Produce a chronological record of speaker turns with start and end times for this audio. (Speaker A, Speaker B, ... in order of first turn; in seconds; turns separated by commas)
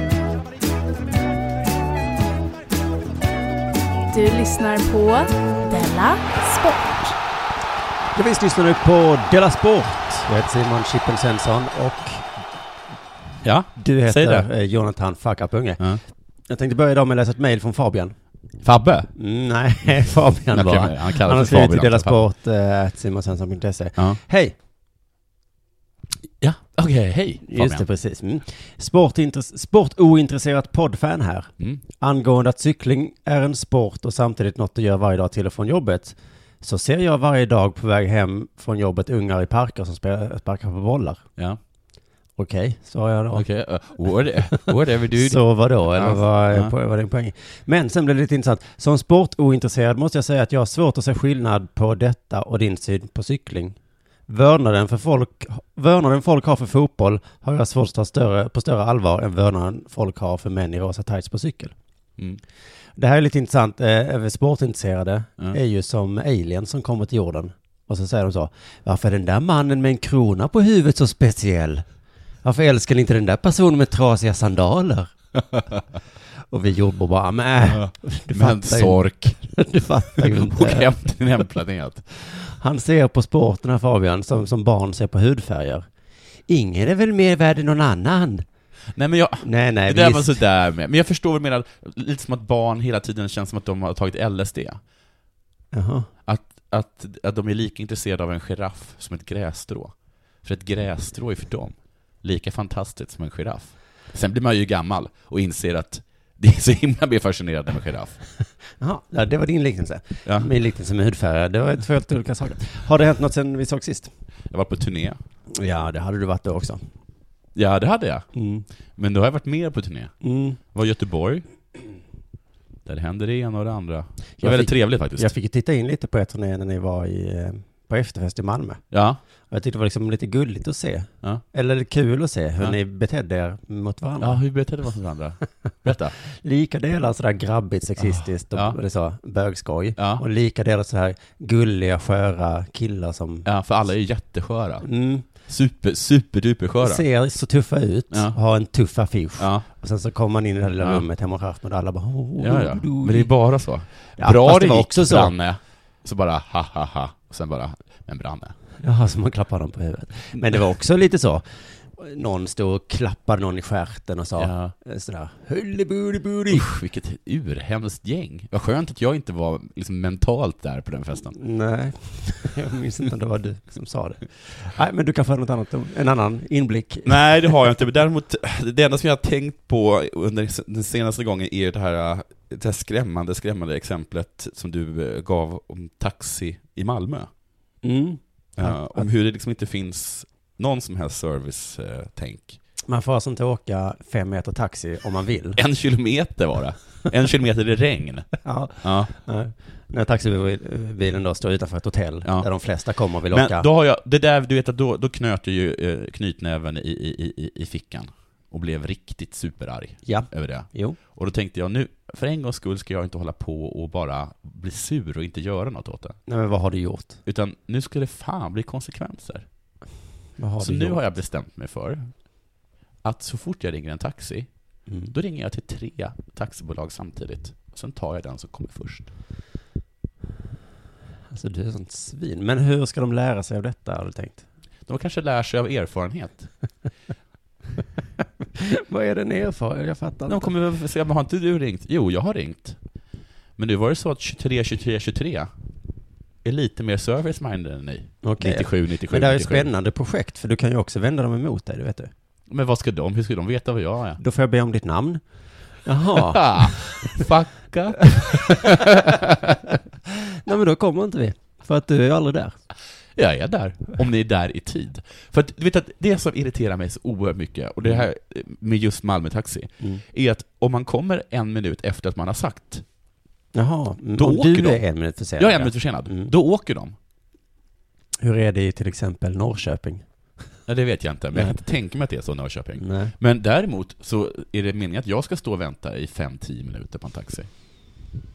Speaker A: 4.1-7.2, Speaker B: 8.1-12.3, Speaker C: 13.4-14.5, Speaker B: 13.8-15.8, Speaker B: 16.5-18.1, Speaker C: 18.6-19.1, Speaker B: 19.1-24.5, Speaker C: 20.5-22.2, Speaker C: 26.4-27.8, Speaker B: 27.4-41.2, Speaker B: 42.4-43.4, Speaker C: 43.3-46.7, Speaker B: 44.5-53.8, Speaker B: 54.3-61.7, Speaker B: 63.0-71.8, Speaker B: 72.4-75.1, Speaker B: 76.5-80.9, Speaker C: 77.6-79.5, Speaker C: 80.2-82.0, Speaker B: 82.1-85.8, Speaker B: 86.5-88.4, Speaker C: 88.9-94.8, Speaker B: 89.4-90.4, Speaker B: 95.7-96.1, Speaker C: 96.2-108.2, Speaker B: 108.8-114.1, Speaker C: 114.5-115.2, Speaker B: 115.5-116.8, Speaker C: 117.5-118.2, Speaker B: 118.3-118.7, Speaker C: 119.0-120.1, Speaker B: 120.2-120.6, Speaker C: 120.6-121.4, Speaker C: 122.8-125.3, Speaker B: 124.4-128.8, Speaker C: 128.9-129.2, Speaker B: 129.5-134.4, Speaker C: 134.2-136.1, Speaker B: 136.3-143.4, Speaker C: 138.1-138.8, Speaker C: 140.0-140.2, Speaker C: 143.4-147.0, Speaker B: 144.8-145.2, Speaker B: 146.8-153.3, Speaker C: 148.1-148.4, Speaker C: 149.4-149.7, Speaker C: 150.8-151.0, Speaker C: 152.4-158.5, Speaker B: 154.2-155.3, Speaker B: 158.8-166.7, Speaker C: 164.4-164.7, Speaker C: 166.5-171.3, Speaker B: 171.3-177.7, Speaker C: 177.1-187.3, Speaker B: 187.8-189.0, Speaker C: 188.6-192.6, Speaker B: 192.9-195.6, Speaker C: 195.6-199.1, Speaker B: 198.4-203.7, Speaker C: 203.3-216.2, Speaker B: 210.0-211.0, Speaker B: 216.3-217.2, Speaker C: 217.2-219.4, Speaker B: 220.4-221.0, Speaker C: 220.6-222.1, Speaker C: 223.0-224.5, Speaker C: 225.1-229.1, Speaker B: 231.3-234.4, Speaker C: 234.9-236.5, Speaker B: 238.6-240.5, Speaker C: 240.3-242.8, Speaker C: 243.6-245.5, Speaker C: 246.4-249.7, Speaker B: 248.2-252.1, Speaker C: 252.5-254.2, Speaker B: 254.2-255.2, Speaker B: 255.8-257.0, Speaker C: 256.1-259.6, Speaker B: 258.2-259.1, Speaker B: 260.2-262.6, Speaker C: 263.1-272.8, Speaker B: 273.5-276.3, Speaker C: 274.2-274.8, Speaker C: 275.4-276.9, Speaker B: 278.2-280.0, Speaker C: 280.7-287.5, Speaker B: 282.8-283.1